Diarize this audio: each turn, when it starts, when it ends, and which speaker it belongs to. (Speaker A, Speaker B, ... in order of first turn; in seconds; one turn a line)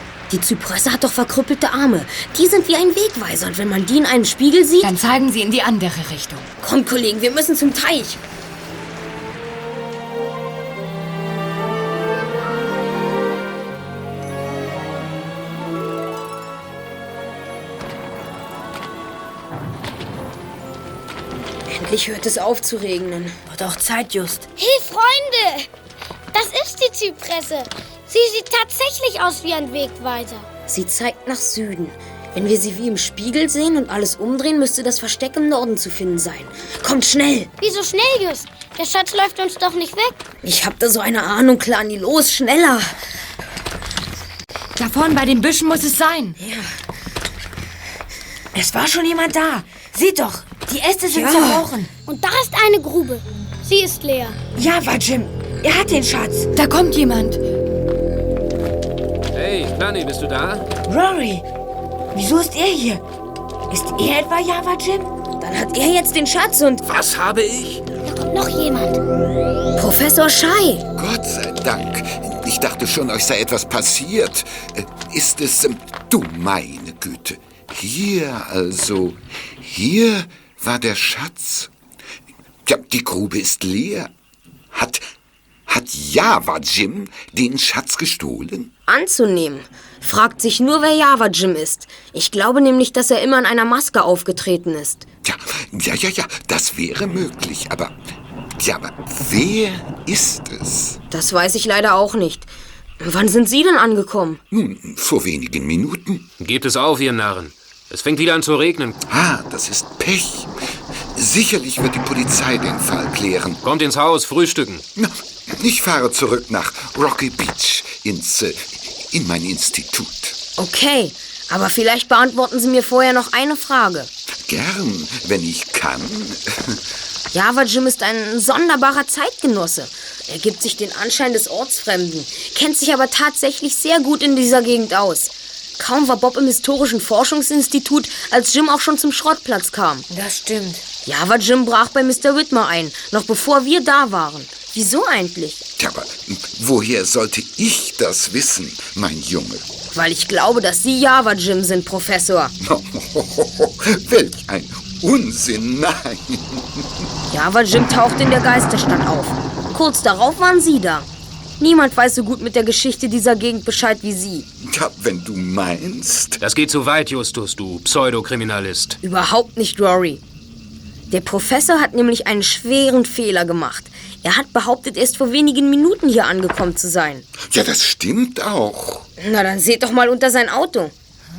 Speaker A: 0.3-4.9
Speaker B: 4.8-6.5
Speaker A: 6.6-8.2
Speaker A: 21.7-23.4
Speaker C: 23.4-24.5
Speaker D: 24.6-25.7
Speaker D: 26.3-30.4
Speaker A: 30.7-37.5
Speaker D: 37.6-40.2
Speaker A: 40.4-42.9
Speaker B: 44.8-46.4
Speaker A: 46.4-46.7
Speaker C: 48.5-51.9
Speaker A: 51.1-51.6
Speaker D: 52.0-54.4
Speaker C: 54.5-56.5
Speaker B: 56.5-57.4
Speaker E: 59.3-60.6
Speaker C: 60.9-61.5
Speaker C: 62.1-63.0
Speaker C: 63.7-65.1
Speaker A: 65.4-66.8
Speaker E: 66.8-67.8
Speaker D: 68.0-69.0
Speaker A: 69.8-70.8
Speaker F: 71.0-81.7
Speaker F: 82.6-84.1
Speaker F: 84.7-85.0
Speaker F: 85.7-88.7
Speaker A: 88.9-95.0
Speaker F: 95.2-97.9
Speaker F: 98.6-101.0
Speaker A: 101.1-102.5
Speaker A: 103.0-104.4
Speaker F: 104.5-106.3
Speaker E: 106.4-109.0
Speaker F: 109.1-110.5
Speaker F: 111.1-113.6
Speaker E: 113.6-114.8
Speaker F: 115.0-120.4
Speaker A: 120.6-124.1
Speaker F: 124.5-126.8
Speaker A: 127.3-140.1
Speaker C: 140.1-140.8
Speaker A: 141.1-145.6
Speaker F: 145.8-149.6
Speaker A: 149.9-152.5
Speaker F: 152.6-156.8
Speaker A: 157.3-161.1
Speaker A: 161.6-164.5
Speaker F: 164.6-166.4
Speaker E: 166.4-169.0
Speaker A: 169.0-170.2
Speaker A: 171.1-177.2
Speaker F: 177.4-179.1
Speaker A: 179.2-180.9